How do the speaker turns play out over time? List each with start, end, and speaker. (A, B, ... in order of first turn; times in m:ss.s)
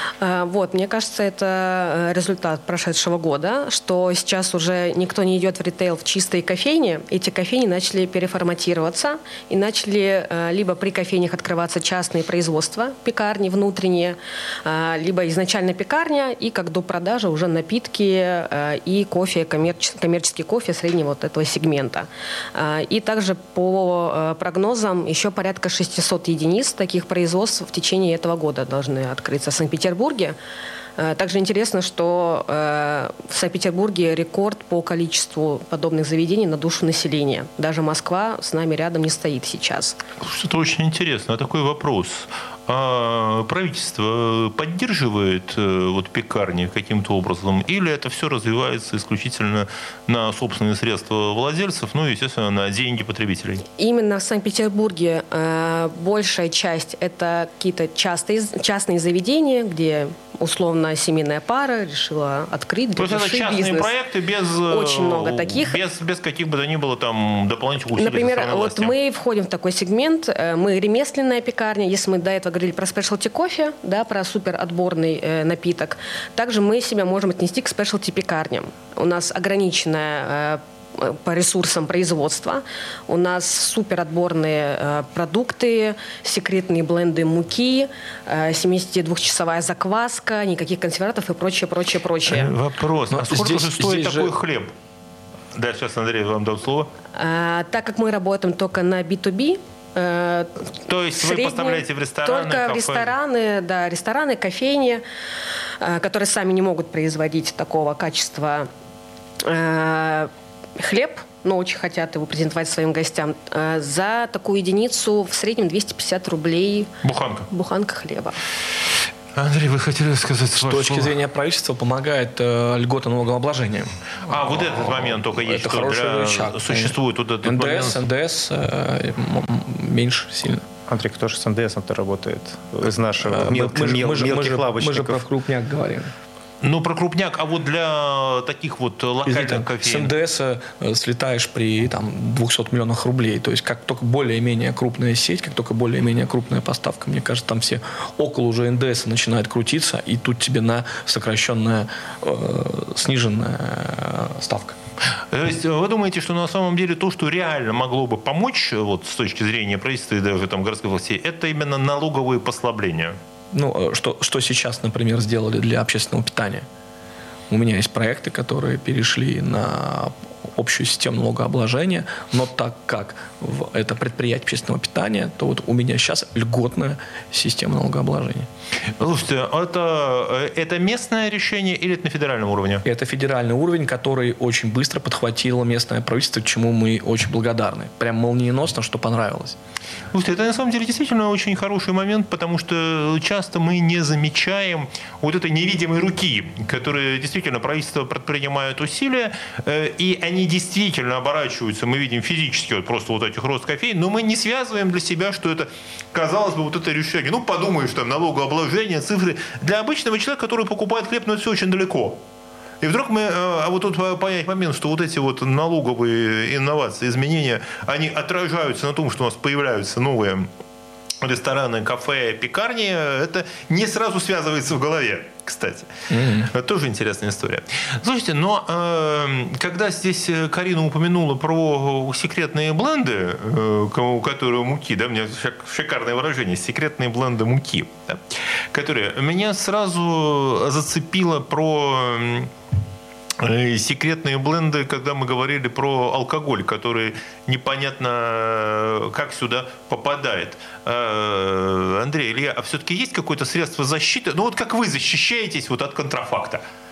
0:00.2-0:30.4 A
0:31.0-0:40.0 A
0:40.2-0:53.6 B
0:53.8-1:03.9 A
1:03.0-1:09.0 B
1:04.7-1:05.8 A
1:07.9-1:32.5 A
1:32.3-1:34.7 B
1:33.1-1:34.3 C
1:35.5-1:36.9 B
1:37.2-1:45.0 A
1:40.9-1:43.1 B
1:45.8-1:48.7 A
1:49.4-1:56.9 A
1:57.0-1:57.5 B
1:57.5-1:58.4 A
1:59.4-2:01.2 B
2:00.6-2:10.6 C
2:04.2-2:08.0 B
2:10.9-2:15.2 D
2:13.2-2:16.1 C
2:16.6-2:20.1 B
2:19.3-2:34.8 C
2:35.3-2:43.2 B
2:43.5-2:46.7 C
2:47.5-2:58.5 C
2:59.0-3:02.8 B
3:02.8-3:09.6 C
3:10.1-3:32.2 B
3:32.8-3:40.5 B
3:41.2-4:02.5 B
3:46.1-3:46.5 C
4:03.4-4:16.6 B